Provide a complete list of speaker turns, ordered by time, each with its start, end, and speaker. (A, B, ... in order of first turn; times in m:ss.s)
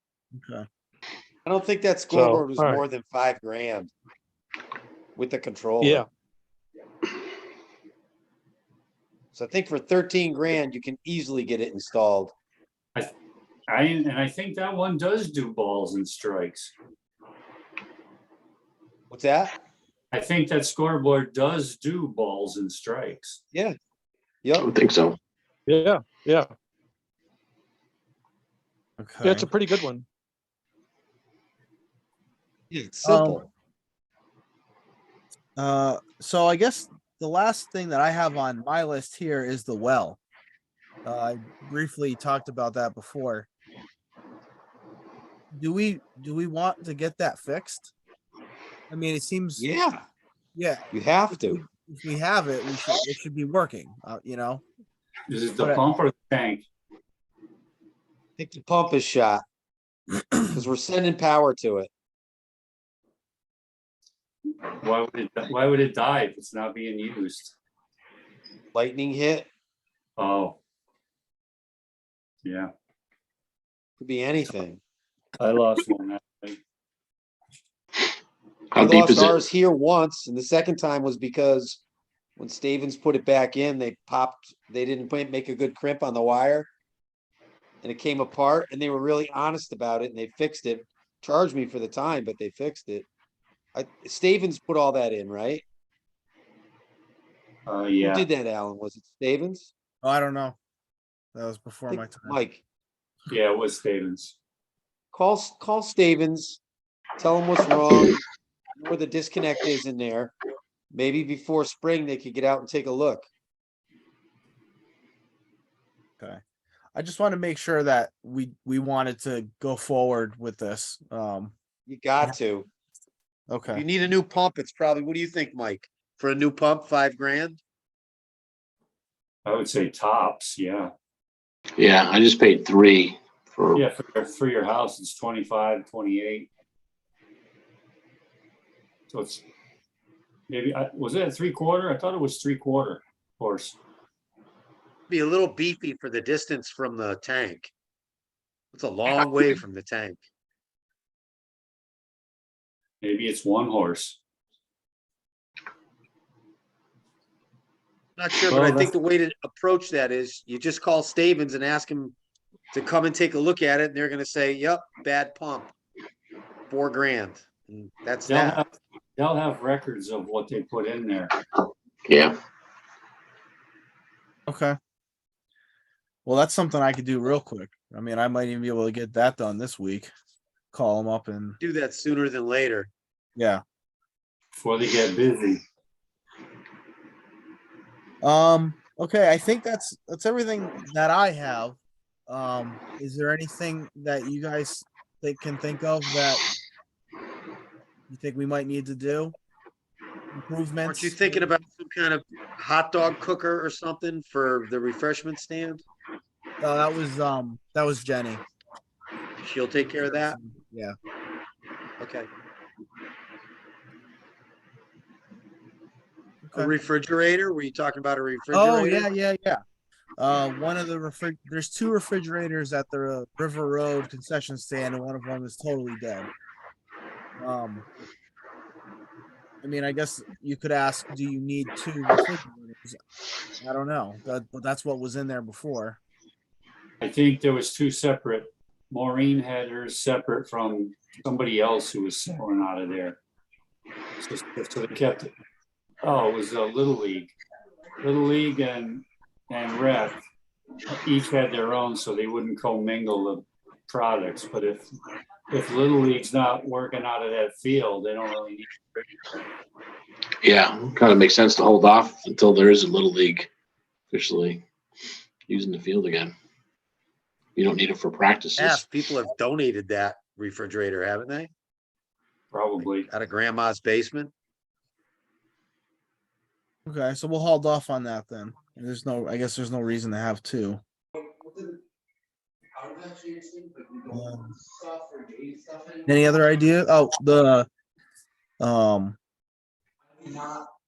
0:00.4-0:00.6 A
0:01.5-0:03.9 B
0:02.1-0:02.8 C
0:05.2-0:06.0 B
0:05.8-0:06.0 C
0:09.3-0:12.3 B
0:13.7-0:16.7 D
0:19.1-0:19.6 B
0:20.1-0:23.4 D
0:24.6-0:25.2 E
0:25.7-0:26.5 C
0:29.0-0:29.5 A
0:29.2-0:30.0 C
0:32.7-0:33.5 B
0:33.0-0:33.4 A
0:35.6-0:40.2 A
0:41.0-0:43.5 A
0:45.5-0:47.9 A
0:48.9-0:49.7 A
0:49.6-0:50.1 B
0:50.6-0:54.6 A
0:50.9-0:51.6 B
0:55.3-0:56.7 D
0:58.4-0:59.4 B
1:00.4-1:01.9 B
1:04.8-1:07.5 D
1:08.7-1:09.5 B
1:10.2-1:10.6 D
1:12.4-1:12.7 D
1:14.0-1:14.8 B
1:15.4-1:16.6 D
1:18.7-1:19.4 E
1:18.8-1:21.8 B
1:22.4-1:26.7 B
1:27.8-1:33.1 B
1:33.7-1:35.6 B
1:37.7-1:38.2 D
1:38.0-1:39.7 B
1:40.0-1:40.6 A
1:41.3-1:42.4 A
1:41.9-1:42.6 B
1:43.3-1:44.4 D
1:45.1-1:46.6 B
1:47.2-1:48.2 B
1:48.8-1:50.3 B
1:50.9-1:53.2 B
1:56.9-2:01.6 A
2:01.9-2:02.7 B
2:03.5-2:03.8 A
2:03.7-2:07.6 B
2:09.5-2:10.9 D
2:11.8-2:13.8 E
2:13.7-2:16.5 D
2:19.1-2:19.4 D
2:20.5-2:23.8 D
2:25.1-2:27.7 B
2:28.7-2:30.2 B
2:33.0-2:34.2 D
2:38.2-2:42.2 B
2:38.5-2:38.9 D
2:42.7-2:45.7 B
2:46.7-2:48.6 B
2:48.3-2:51.3 D
2:52.1-2:52.4 E
2:54.5-2:54.8 A
2:56.2-3:00.1 A
3:00.7-3:01.6 A
3:01.6-3:02.9 B
3:04.5-3:05.6 D
3:08.2-3:16.4 A
3:18.1-3:19.3 A
3:20.3-3:21.5 A
3:20.8-3:25.8 B
3:26.6-3:28.4 A
3:29.4-3:30.4 B
3:30.2-3:31.0 A
3:32.0-3:32.3 B
3:36.4-3:36.7 A
3:36.5-3:39.1 B
3:38.5-3:39.6 A
3:40.2-3:46.3 A
3:47.4-3:47.9 A
3:49.6-3:53.0 A
3:53.6-3:56.0 A
3:57.0-4:03.2 D
4:04.2-4:05.3 D
4:06.0-4:07.3 D
4:08.0-4:10.2 D
4:10.9-4:14.9 D
4:15.5-4:19.1 D
4:20.4-4:23.5 E
4:24.1-4:24.6 E
4:25.5-4:26.3 E
4:27.6-4:28.8 E
4:28.6-4:31.5 B
4:32.5-4:33.1 D
4:32.8-4:34.3 B
4:36.8-4:40.8 A
4:42.8-4:43.8 C
4:44.1-4:44.5 A
4:45.0-4:45.8 C
4:46.1-4:47.7 A
4:48.6-4:49.2 A
4:50.2-4:50.7 C